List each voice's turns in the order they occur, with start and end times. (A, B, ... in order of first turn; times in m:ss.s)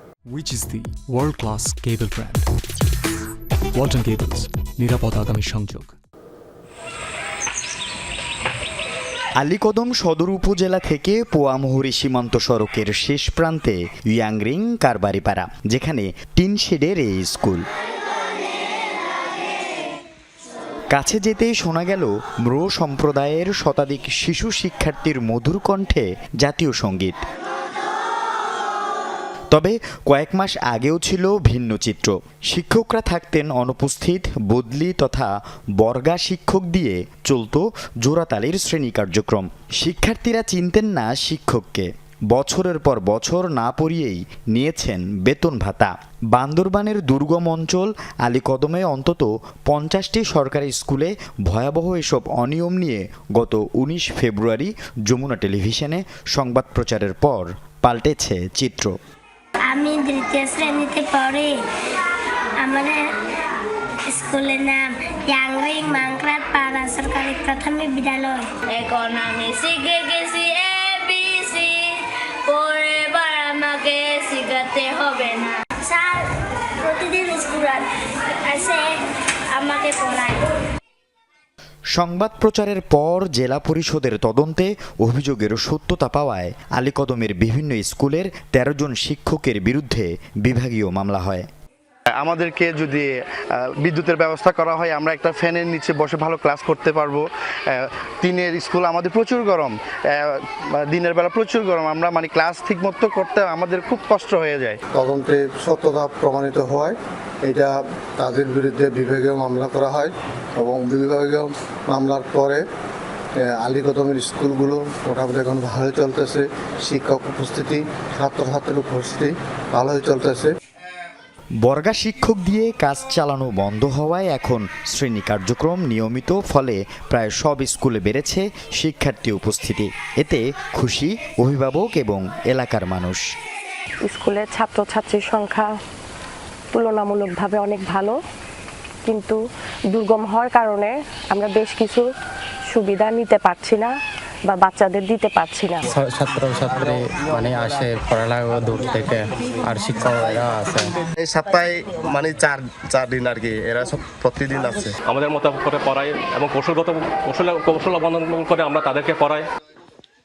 0:00.3-0:02.5 A
0:03.7-0:05.9 A
0:09.4-0:17.6 B
0:20.9-0:27.2 B
0:29.5-0:59.0 B
0:59.6-1:01.6 C
1:02.6-1:03.0 C
1:04.1-1:08.5 C
1:08.7-1:15.6 D
1:15.8-1:16.2 C
1:16.8-1:17.9 C
1:18.5-1:18.9 C
1:19.6-1:20.4 C
1:21.9-1:31.5 B
1:32.2-1:44.8 E
1:45.0-1:52.6 F
1:53.4-2:00.5 F
2:01.6-2:13.2 B
2:14.0-2:15.7 G
2:16.7-2:18.2 G
2:19.0-2:19.4 G
2:19.9-2:22.1 G
2:22.7-2:24.0 G
2:24.5-2:25.8 G
2:25.9-2:30.9 H
2:31.2-2:34.9 I
2:35.1-2:39.4 J